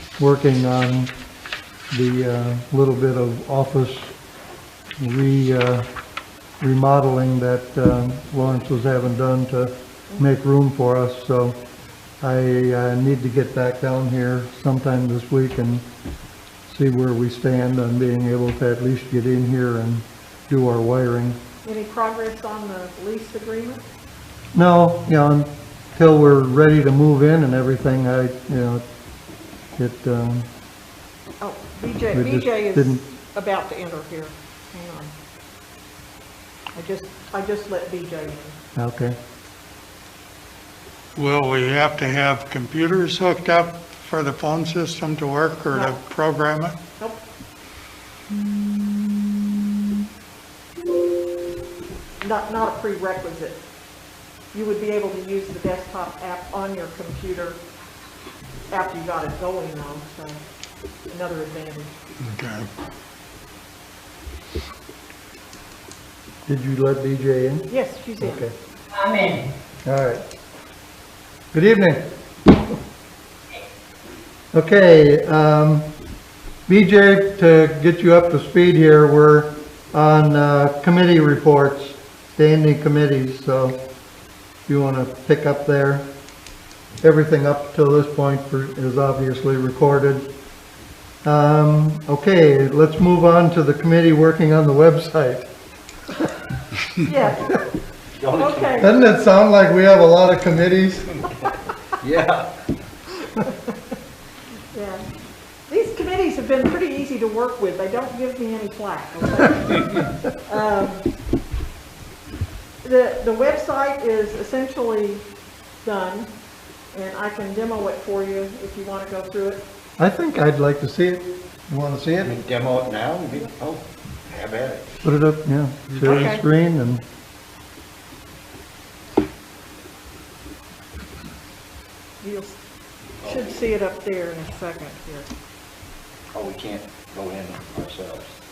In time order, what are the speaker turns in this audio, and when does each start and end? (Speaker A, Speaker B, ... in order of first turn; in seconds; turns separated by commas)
Speaker A: 0.2-1.1, Speaker A: 1.9-4.1, Speaker A: 5.0-5.9, Speaker A: 6.6-11.6, Speaker A: 12.2-15.8, Speaker A: 16.7-21.4, Speaker B: 21.6-23.8, Speaker A: 24.5-28.8, Speaker A: 29.8-30.5, Speaker B: 31.4-35.1, Speaker A: 32.1-33.0, Speaker B: 36.7-38.6, Speaker A: 38.8-39.1, Speaker C: 41.1-46.8, Speaker B: 45.7-46.0, Speaker B: 52.2-53.6, Speaker B: 54.5-57.6, Speaker B: 58.7-60.4, Speaker B: 61.1-62.0, Speaker C: 62.2-62.7, Speaker A: 66.5-68.5, Speaker B: 67.7-68.4, Speaker A: 69.8-70.2, Speaker A: 71.5-72.0, Speaker A: 74.5-75.9, Speaker A: 76.7-83.7, Speaker A: 84.7-86.1, Speaker A: 87.0-90.2, Speaker A: 91.2-95.5, Speaker B: 97.0-97.6, Speaker D: 98.2-98.8, Speaker B: 98.4-98.9, Speaker A: 98.8-101.2, Speaker D: 102.0-102.5, Speaker B: 103.4-103.8, Speaker B: 104.7-105.0, Speaker B: 105.7-111.1, Speaker B: 112.8-115.2, Speaker B: 115.8-116.3, Speaker B: 116.9-119.6, Speaker A: 120.0-122.3, Speaker D: 122.2-124.9, Speaker A: 125.0-127.0, Speaker B: 126.0-126.4, Speaker B: 132.2-132.6, Speaker B: 133.2-135.3, Speaker D: 136.3-138.3